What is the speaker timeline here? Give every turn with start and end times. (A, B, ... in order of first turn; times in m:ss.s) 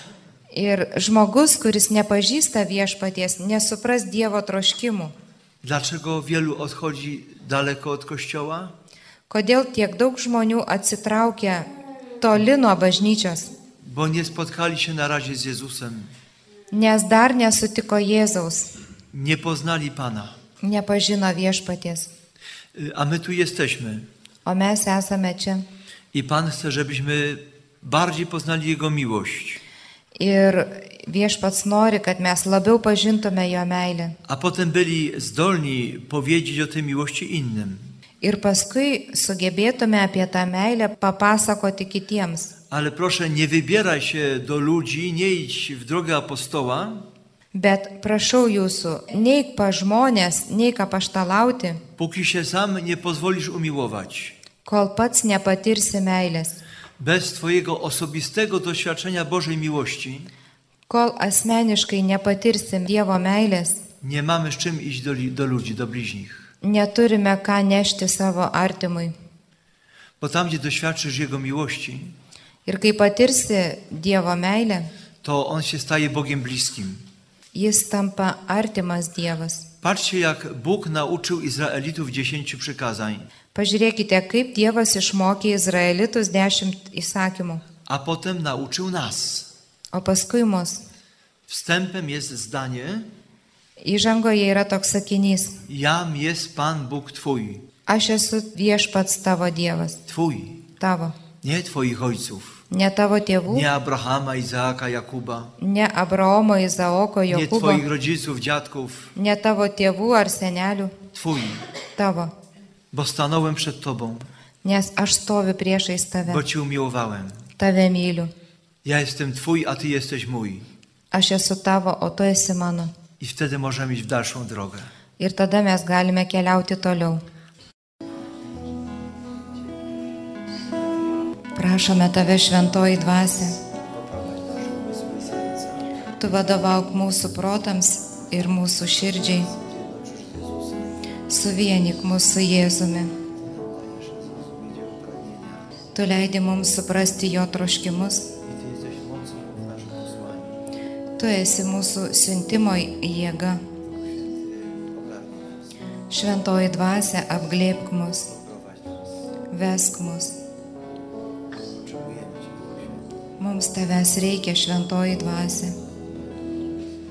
0:00.5-0:05.1 A
0:05.6-0:08.7 B
0:09.3-0:11.7 A
0:12.2-0:13.5 A
0:13.8-0:16.1 B
0:16.7-0:18.7 A
0:19.1-0:20.4 B
0:20.6-0:22.1 A
0:22.7-0:24.1 B
0:24.4-0:25.6 A
0:26.1-0:29.6 B
0:30.2-0:34.2 A
0:34.2-0:37.9 B
0:38.2-0:42.5 A
0:42.7-0:47.0 B
0:47.5-0:51.8 A
0:52.0-0:54.3 B
0:54.6-0:56.6 A
0:57.0-1:00.3 B
1:00.9-1:03.8 A
1:04.0-1:06.5 B
1:06.6-1:09.1 A
1:10.2-1:12.2 B
1:12.6-1:14.9 A
1:15.2-1:17.0 B
1:17.5-1:19.6 A
1:19.8-1:23.3 B
1:23.5-1:27.6 A
1:27.9-1:29.5 B
1:29.9-1:30.8 A
1:31.5-1:33.1 B
1:33.8-1:35.6 A
1:35.7-1:37.6 B
1:37.9-1:40.0 A
1:40.1-1:40.6 B
1:40.8-1:41.2 A
1:41.4-1:42.6 B
1:42.7-1:43.6 A
1:43.5-1:45.5 B
1:45.6-1:47.8 A
1:47.3-1:49.1 B
1:49.1-1:50.9 A
1:51.1-1:51.6 B
1:52.0-1:52.3 A
1:52.9-1:54.3 B
1:54.6-1:56.4 A
1:56.3-1:57.5 B
1:57.6-1:58.3 A
1:58.8-2:00.7 B
2:01.1-2:02.9 A
2:03.2-2:04.9 B
2:05.2-2:07.2 A
2:11.6-2:13.6 A
2:13.8-2:15.9 B
2:16.2-2:19.5 A
2:19.5-2:20.9 B
2:21.3-2:23.1 A
2:23.4-2:25.7 B
2:25.9-2:28.3 A
2:28.4-2:30.6 B
2:31.2-2:33.6 A
2:33.9-2:35.6 B
2:36.1-2:38.3 A
2:38.3-2:39.0 B
2:39.5-2:40.4 A
2:41.6-2:43.0 B
2:43.4-2:45.7 A